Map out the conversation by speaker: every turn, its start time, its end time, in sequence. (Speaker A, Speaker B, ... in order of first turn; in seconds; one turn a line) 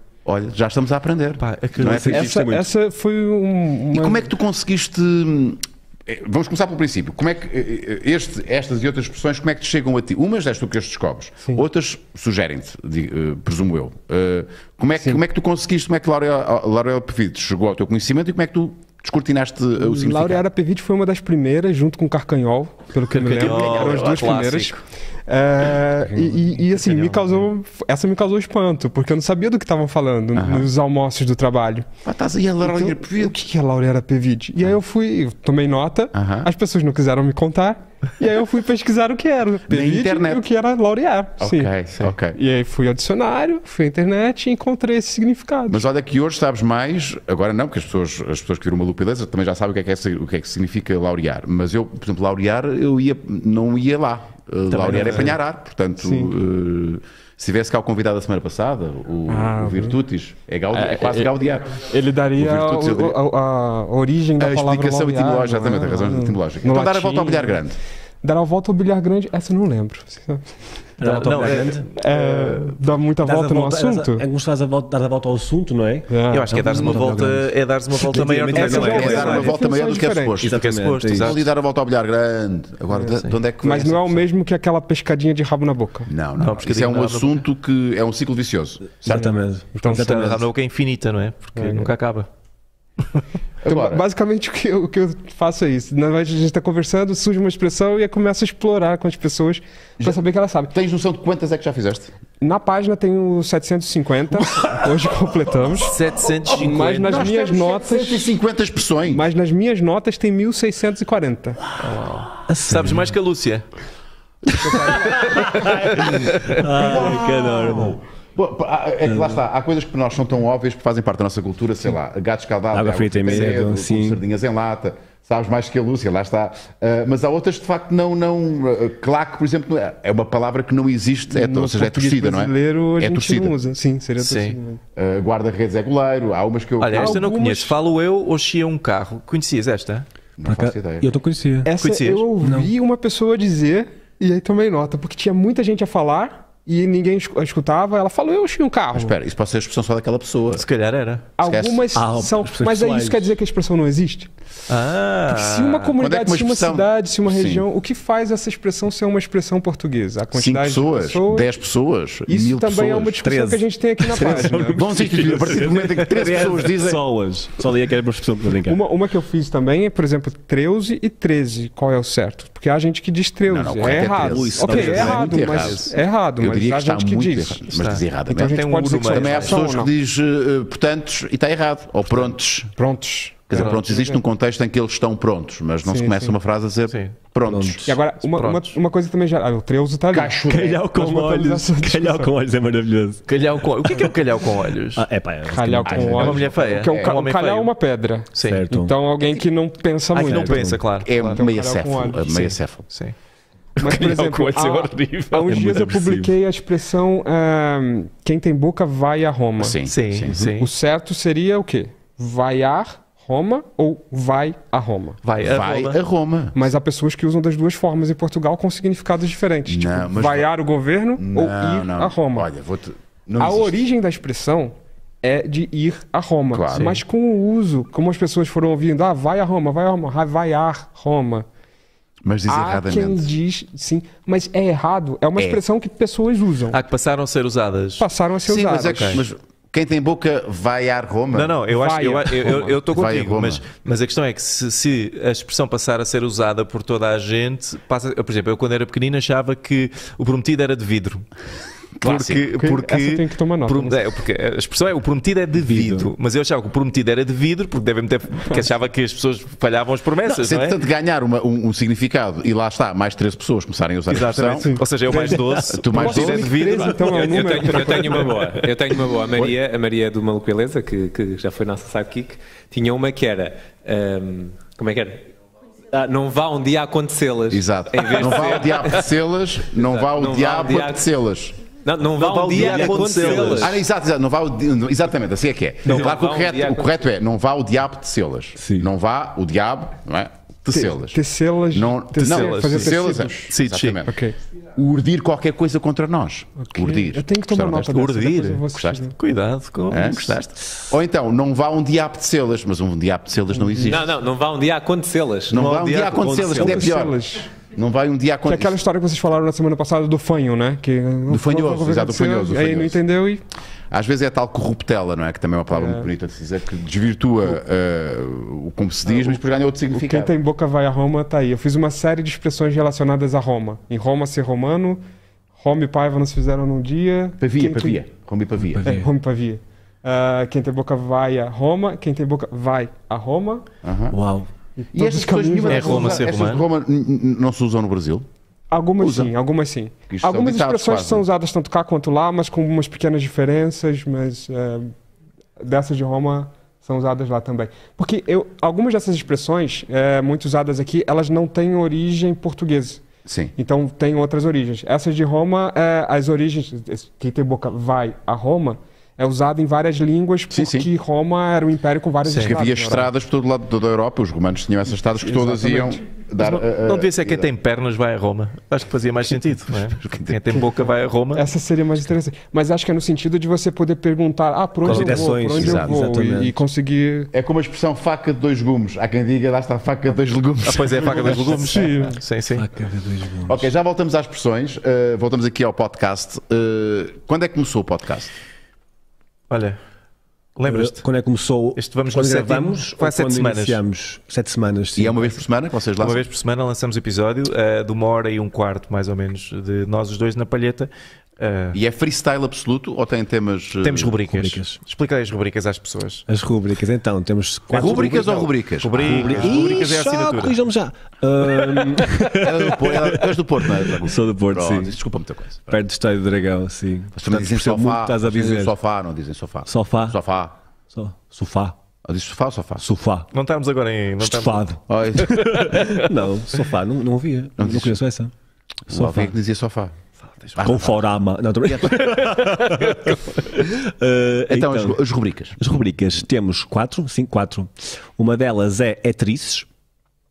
Speaker A: 0.2-2.4
Speaker B: 1.4-2.2
Speaker C: 1.7-2.7
Speaker D: 2.0-4.3
Speaker A: 3.9-20.4
Speaker D: 14.9-15.2
Speaker D: 19.8-31.9
Speaker B: 23.1-24.8
Speaker A: 23.2-24.4
Speaker C: 26.1-26.4
Speaker B: 26.8-27.3
Speaker A: 30.4-30.7
Speaker A: 32.0-33.4
Speaker D: 32.6-41.7
Speaker A: 36.1-36.5
Speaker A: 39.7-40.4
Speaker A: 41.4-42.4
Speaker D: 42.3-45.8
Speaker A: 45.7-63.2
Speaker B: 54.7-55.4
Speaker D: 54.9-55.3
Speaker D: 56.0-56.3
Speaker D: 59.3-60.0
Speaker D: 60.7-67.6
Speaker A: 64.4-67.8
Speaker D: 68.2-70.4
Speaker C: 71.0-71.8
Speaker B: 71.0-72.7
Speaker D: 72.0-74.2
Speaker C: 73.2-79.5
Speaker D: 76.1-76.5
Speaker B: 76.3-79.4
Speaker A: 76.6-77.0
Speaker D: 78.5-80.3
Speaker A: 78.7-84.2
Speaker C: 80.4-81.3
Speaker B: 80.4-81.4
Speaker D: 82.9-86.1
Speaker A: 86.1-89.3
Speaker B: 86.4-87.4
Speaker C: 89.0-90.5
Speaker D: 89.1-90.3
Speaker B: 89.9-92.3
Speaker D: 91.5-91.9
Speaker A: 93.6-94.0
Speaker D: 93.7-100.7
Speaker A: 100.7-102.1
Speaker D: 102.4-105.9
Speaker B: 105.8-107.3
Speaker A: 106.5-109.3
Speaker D: 106.6-108.3
Speaker D: 109.1-111.6
Speaker B: 111.8-113.6
Speaker C: 112.5-113.0
Speaker C: 114.5-118.0
Speaker D: 114.6-115.2
Speaker B: 115.2-116.7
Speaker A: 116.7-133.5
Speaker C: 119.0-119.4
Speaker C: 122.7-124.2
Speaker B: 123.3-123.6
Speaker D: 131.3-134.8
Speaker B: 134.2-134.6
Speaker A: 134.9-137.2
Speaker B: 136.8-140.1
Speaker D: 137.0-137.7
Speaker A: 140.4-141.1
Speaker C: 140.4-141.7
Speaker D: 141.6-149.1
Speaker B: 141.8-142.2
Speaker C: 142.4-142.7
Speaker A: 148.9-150.6
Speaker B: 150.5-151.2
Speaker D: 151.4-154.3
Speaker A: 151.4-151.9
Speaker C: 151.9-153.2
Speaker B: 154.7-155.9
Speaker D: 155.3-161.5
Speaker A: 155.9-157.6
Speaker A: 160.3-163.2
Speaker D: 162.3-164.8
Speaker C: 163.2-168.8
Speaker A: 164.7-167.0
Speaker D: 168.7-177.6
Speaker A: 173.4-182.7
Speaker C: 173.8-175.7
Speaker B: 175.6-175.9
Speaker B: 177.7-179.6
Speaker D: 178.3-179.9
Speaker D: 182.8-184.2
Speaker A: 183.5-187.9
Speaker B: 183.5-183.8
Speaker D: 185.8-186.3
Speaker B: 186.9-187.1
Speaker C: 187.4-187.9
Speaker D: 187.8-190.4
Speaker B: 188.2-188.7
Speaker A: 190.1-190.8
Speaker C: 190.5-193.2
Speaker D: 190.9-192.3
Speaker B: 193.3-195.1
Speaker C: 193.8-194.2
Speaker C: 194.9-196.4
Speaker D: 195.5-202.4
Speaker A: 195.9-197.1
Speaker B: 196.2-197.7
Speaker B: 198.3-198.6
Speaker C: 198.4-198.9
Speaker B: 200.1-201.4
Speaker C: 200.2-200.8
Speaker A: 201.0-202.9
Speaker B: 202.3-203.1
Speaker B: 203.8-205.7
Speaker D: 203.8-209.8
Speaker C: 205.5-206.3
Speaker A: 209.6-210.5
Speaker B: 209.8-210.7
Speaker D: 210.4-215.2
Speaker B: 215.2-216.0
Speaker A: 215.4-216.7
Speaker D: 216.5-222.5
Speaker A: 219.7-220.5
Speaker A: 221.2-223.8
Speaker D: 223.4-231.5
Speaker A: 226.5-227.0
Speaker B: 226.7-227.0
Speaker A: 232.2-233.3
Speaker D: 232.5-236.8
Speaker B: 236.7-238.1
Speaker D: 238.0-239.2
Speaker A: 238.4-241.6
Speaker B: 238.8-239.2
Speaker B: 241.3-251.3
Speaker D: 241.7-242.7
Speaker A: 242.9-243.6
Speaker A: 252.0-252.5
Speaker B: 252.0-260.8
Speaker D: 252.6-254.0
Speaker C: 255.6-256.1
Speaker A: 260.2-266.6
Speaker B: 264.1-268.7
Speaker D: 264.6-268.2
Speaker E: 267.0-275.3
Speaker E: 275.9-279.1
Speaker A: 277.5-281.5
Speaker E: 279.7-281.1
Speaker E: 281.8-283.8
Speaker B: 282.1-283.8
Speaker C: 282.5-283.7
Speaker A: 283.5-291.2
Speaker E: 285.8-287.1
Speaker C: 288.6-288.9
Speaker D: 290.7-293.5
Speaker A: 291.7-294.2
Speaker B: 292.2-292.9
Speaker B: 293.5-294.0
Speaker D: 294.0-294.3
Speaker A: 294.7-298.0
Speaker D: 296.6-299.1
Speaker B: 297.9-298.6
Speaker A: 298.7-299.0
Speaker B: 299.2-300.5
Speaker A: 299.9-304.1
Speaker D: 303.5-304.0
Speaker E: 303.8-305.8
Speaker A: 305.5-308.8
Speaker C: 305.8-307.0
Speaker D: 306.4-307.5
Speaker D: 308.4-313.4
Speaker A: 311.3-313.0
Speaker A: 313.9-320.3
Speaker D: 315.7-316.1
Speaker D: 319.9-325.0
Speaker D: 325.6-328.0
Speaker A: 327.4-328.8
Speaker C: 328.7-329.1
Speaker D: 328.8-333.6
Speaker A: 333.8-334.2
Speaker C: 334.1-334.5
Speaker D: 334.8-336.2
Speaker A: 334.9-338.2
Speaker B: 335.7-336.6
Speaker D: 338.7-344.9
Speaker A: 339.0-339.3
Speaker A: 340.1-341.2
Speaker D: 345.6-353.0
Speaker A: 353.2-353.5
Speaker D: 353.6-363.1
Speaker A: 360.5-360.9
Speaker B: 362.2-362.5
Speaker A: 362.4-367.5
Speaker D: 365.2-366.0
Speaker B: 366.4-371.4
Speaker A: 370.0-370.6
Speaker D: 371.3-377.3
Speaker B: 374.8-375.3
Speaker C: 374.8-376.6
Speaker A: 375.5-375.9
Speaker A: 377.3-381.9
Speaker B: 380.6-382.6
Speaker D: 381.6-382.2
Speaker C: 382.5-383.7
Speaker A: 383.4-388.3
Speaker B: 389.5-389.8
Speaker B: 390.6-391.0
Speaker C: 390.7-395.4
Speaker B: 391.8-393.8
Speaker A: 394.9-396.2
Speaker B: 396.0-401.8
Speaker A: 401.7-404.2
Speaker B: 403.8-406.2
Speaker C: 404.3-404.8
Speaker C: 406.3-414.9
Speaker B: 407.7-408.1
Speaker A: 407.7-409.8
Speaker B: 408.8-410.5
Speaker A: 412.3-415.8
Speaker C: 415.7-418.7
Speaker A: 417.1-420.6
Speaker C: 419.6-420.2
Speaker C: 420.9-421.8
Speaker A: 422.0-422.8
Speaker C: 422.8-423.3
Speaker B: 423.3-424.7
Speaker C: 424.2-428.3
Speaker A: 424.9-425.7
Speaker B: 425.5-426.2
Speaker A: 427.6-428.0
Speaker A: 428.9-429.9
Speaker C: 428.9-429.3
Speaker A: 430.6-431.1
Speaker C: 430.6-435.0
Speaker A: 431.6-432.1
Speaker A: 434.5-435.6
Speaker C: 435.6-439.7